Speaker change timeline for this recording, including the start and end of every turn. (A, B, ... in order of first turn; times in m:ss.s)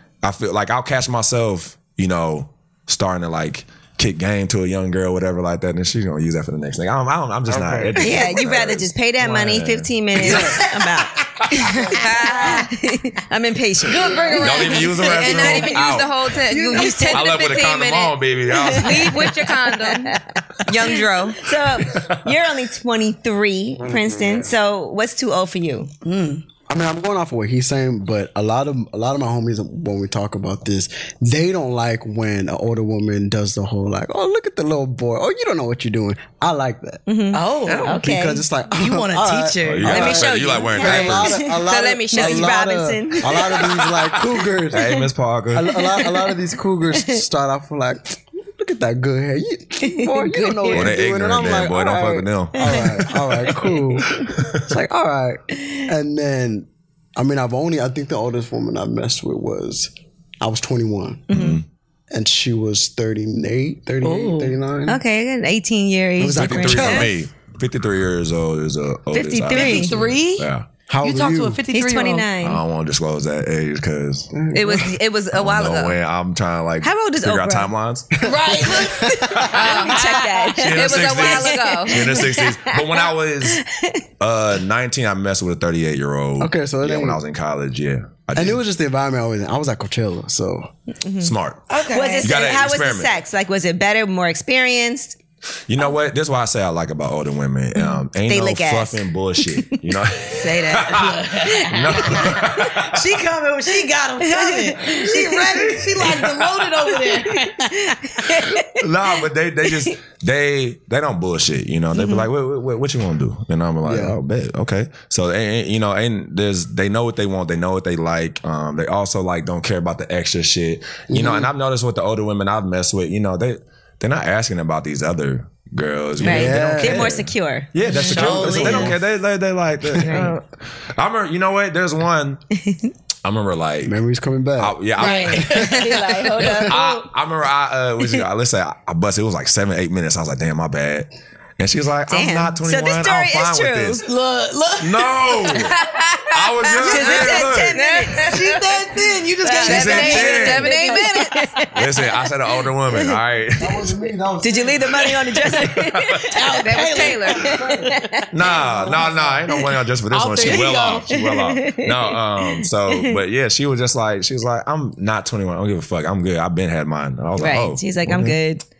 0:00.2-0:10.5 A
0:07.5-0:08.0 B
0:08.0-0:15.7 C
0:10.2-0:11.2 D
0:11.6-0:12.7 E
0:11.8-0:12.7 D
0:13.9-0:15.7 D
0:14.3-0:16.2 A
0:14.4-0:20.1 E
0:16.5-0:17.4 D
0:17.1-0:19.3 A
0:18.6-0:19.1 C
0:18.7-0:19.4 D
0:19.8-0:25.9 C
0:20.6-0:21.4 E
0:21.9-0:22.3 A
0:23.8-0:24.5 B
0:26.0-0:26.4 D
0:26.7-0:37.0 B
0:37.1-0:38.4 C
0:37.3-0:38.0 D
0:37.6-0:38.0 E
0:38.0-0:45.0 B
0:38.7-0:40.3 D
0:39.6-0:41.4 A
0:39.8-0:42.6 E
0:40.6-0:43.9 C
0:40.8-0:41.1 D
0:43.9-0:45.8 A
0:44.7-0:45.0 C
0:45.5-1:01.3 B
0:45.8-0:46.3 C
0:46.9-0:47.2 C
0:49.8-0:50.9 C
0:50.7-0:54.7 A
0:52.6-0:52.8 C
1:01.3-1:01.6 A
1:01.3-1:01.6 C
1:02.1-1:05.0 B
1:04.0-1:04.6 D
1:04.9-1:07.1 C
1:06.2-1:07.1 B
1:06.3-1:10.7 A
1:09.1-1:09.9 C
1:09.5-1:10.5 D
1:10.9-1:11.6 B
1:11.0-1:12.3 D
1:11.7-1:12.6 C
1:12.4-1:14.3 A
1:14.3-1:14.9 B
1:14.5-1:16.0 E
1:15.3-1:18.2 A
1:16.8-1:17.7 C
1:18.2-1:20.5 D
1:18.3-1:19.5 B
1:19.2-1:24.0 C
1:19.4-1:19.6 A
1:19.5-1:22.2 E
1:20.5-1:23.6 A
1:24.2-1:28.6 A
1:26.4-1:27.2 B
1:28.4-1:30.7 B
1:31.0-1:31.3 C
1:31.2-1:31.6 A
1:31.7-1:32.4 D
1:31.9-1:35.2 C
1:32.2-1:33.2 A
1:35.7-1:43.0 A
1:37.8-1:40.0 C
1:40.3-1:47.9 D
1:41.4-1:42.7 C
1:44.2-1:45.8 C
1:45.9-1:46.5 A
1:46.9-1:48.8 C
1:48.6-2:10.4 A
1:49.7-1:50.0 C
1:51.9-1:52.3 C
1:53.8-1:54.2 B
2:01.1-2:01.5 B
2:06.2-2:07.1 B
2:06.2-2:08.9 C
2:07.9-2:09.0 D
2:08.4-2:08.9 B
2:09.9-2:10.3 B
2:10.0-2:10.4 C
2:10.9-2:12.4 A
2:12.5-2:12.9 C
2:13.2-2:13.9 A
2:13.8-2:14.8 B
2:14.6-2:15.6 A
2:15.0-2:16.6 D
2:15.0-2:17.0 C
2:15.4-2:15.8 B
2:15.5-2:16.8 E
2:16.5-2:24.0 A
2:22.1-2:24.0 C
2:24.0-2:25.7 D
2:24.8-2:25.7 A
2:25.7-2:28.5 E
2:26.3-2:27.8 A
2:26.8-2:27.4 D
2:26.8-2:28.6 C
2:28.1-2:31.0 D
2:29.4-2:32.1 C
2:29.6-2:31.5 E
2:29.6-2:30.7 A
2:31.7-2:33.9 A
2:32.9-2:33.2 C
2:33.6-2:35.2 B
2:34.4-2:38.2 C
2:35.5-2:36.4 A
2:36.3-2:37.7 D
2:36.6-2:37.6 E
2:37.4-2:39.4 B
2:38.3-2:48.4 A
2:38.6-2:39.2 D
2:40.1-2:41.1 D
2:40.4-2:43.2 C
2:47.4-2:48.6 C